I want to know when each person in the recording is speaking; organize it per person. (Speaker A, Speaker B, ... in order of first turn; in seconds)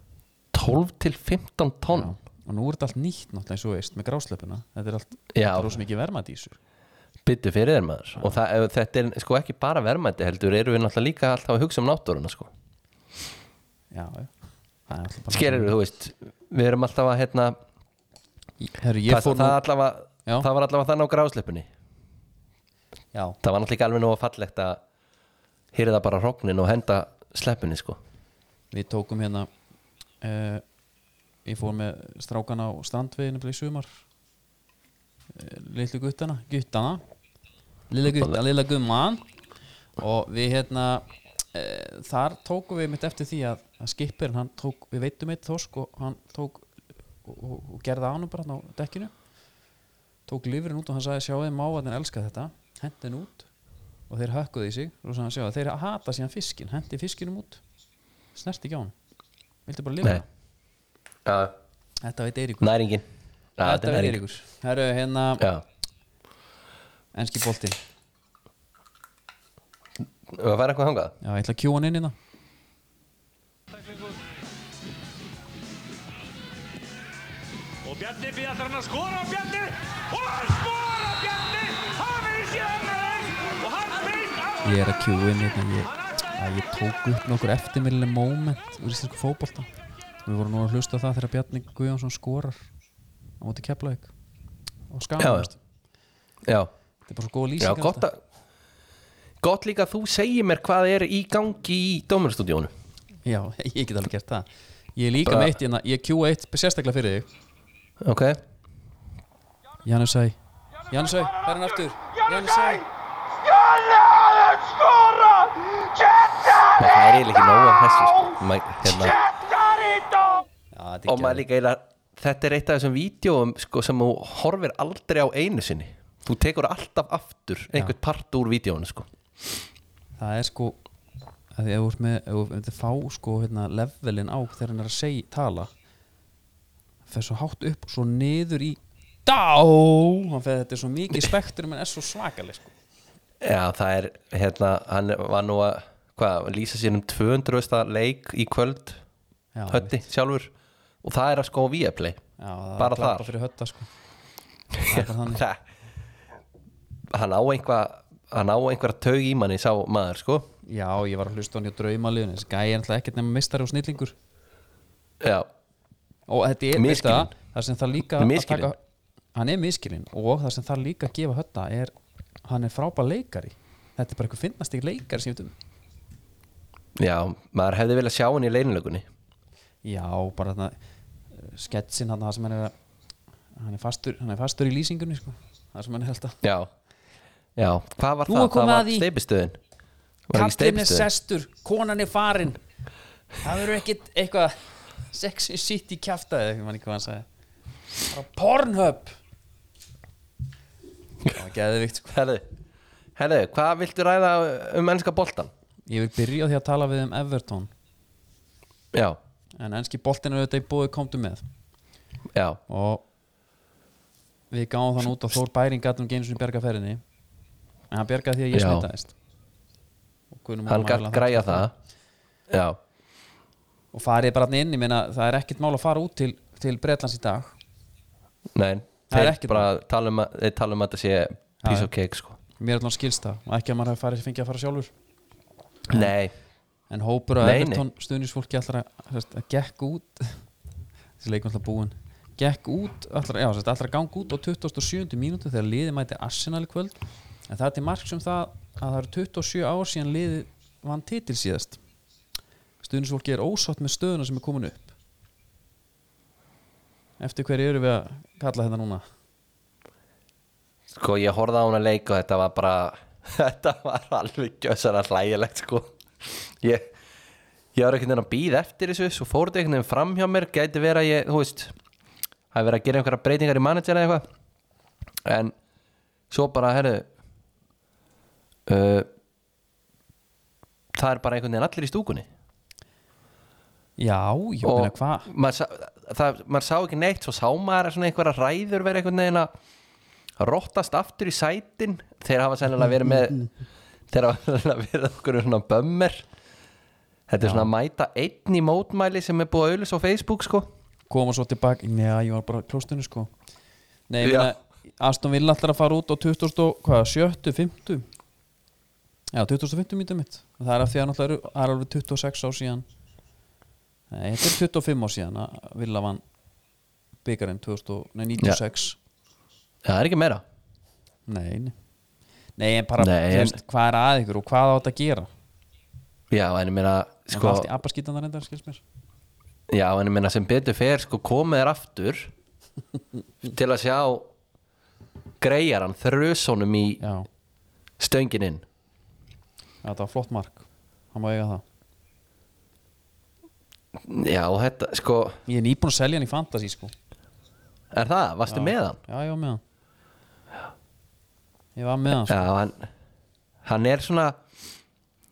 Speaker A: 0.5-2.1, 5.3-5.8, 7.2-12.5, 15.3-17.6, 19.1-21.7, 23.4-24.8, 25.7-28.0, 61.2-61.5, 62.6-63.0, 63.6-64.2, 70.3-71.1, 95.2-95.5, 96.4-96.7, 97.6-98.2, 99.4-102.7, 105.2-105.5, 108.0-108.4, 116.7-119.2, 121.1-129.1, 143.4-149.0, 149.7-150.5, 151.0-152.2, 152.8-153.3, 154.7-155.6, 157.1-160.5, 165.2-165.5, 166.7-167.3, 168.2-168.7, 177.0-179.0, 186.4-186.7, 187.6-189.6, 190.3-191.1, 202.1-202.4, 203.2-205.5, 208.9-209.2, 212.3-212.6, 218.5-218.9, 220.7-221.7, 222.5-222.8, 228.5-232.4, 235.9-236.3, 237.4-237.8, 260.9-266.9, 267.7-271.7, 272.5-274.2, 275.2-275.5, 276.3-277.1, 278.7-279.1, 280.9-282.3, 284.6-289.5, 290.4-293.5, 294.1-296.2, 297.3-300.7, 304.2-304.5, 319.8-320.4, 323.0-323.6, 326.3-327.7, 329.7-332.3, 333.4-334.3, 335.4-337.0, 338.0-338.6, 344.0-345.4, 347.9-349.0, 352.2-352.9, 353.6-354.4
Speaker B: 1.9-6.6, 13.9-14.3, 14.9-15.7, 18.6-19.6, 28.7-29.5, 30.2-30.6, 31.4-33.9, 35.3-37.0, 37.9-39.2, 40.0-46.7, 47.2-49.1, 50.3-53.5, 54.1-57.6, 58.3-58.9, 59.6-60.2, 62.0-62.7, 63.6-65.5, 67.1-67.8, 71.2-72.1, 84.6-89.7, 90.2-92.7, 93.4-94.1, 94.9-95.6, 97.1-98.0, 103.2-107.3, 109.8-110.4, 110.9-112.8, 120.7-121.5, 130.2-130.8, 131.5-135.7, 137.1-142.7, 149.5-150.0, 152.4-153.9, 154.8-155.4, 160.6-164.1, 166.3-168.8, 169.3-171.9, 172.4-175.5, 179.8-180.7, 181.3-182.7, 183.6-186.4, 188.3-189.1, 190.3-192.6, 193.4-194.6, 195.1-197.2, 198.1-199.2, 201.2-202.1, 205.9-207.7, 209.6-211.4, 212.7-213.0, 214.5-217.0, 217.9-219.1, 220.3-221.7, 223.9-227.6, 229.1-229.7, 231.6-231.9, 232.6-234.9, 236.9-240.4, 241.2-251.8, 252.8-254.9, 257.2-259.0, 284.0-285.3, 297.4-297.7, 301.1-303.3, 304.1-308.1, 309.3-312.8, 314.1-316.2, 317.2-319.0, 321.3-321.7, 322.6-325.3, 327.3-328.8, 337.0-337.3, 339.8-341.6, 345.5-346.9, 348.5-349.6, 351.8-352.4
Speaker C: 73.7-74.2, 77.8-84.6, 119.6-120.4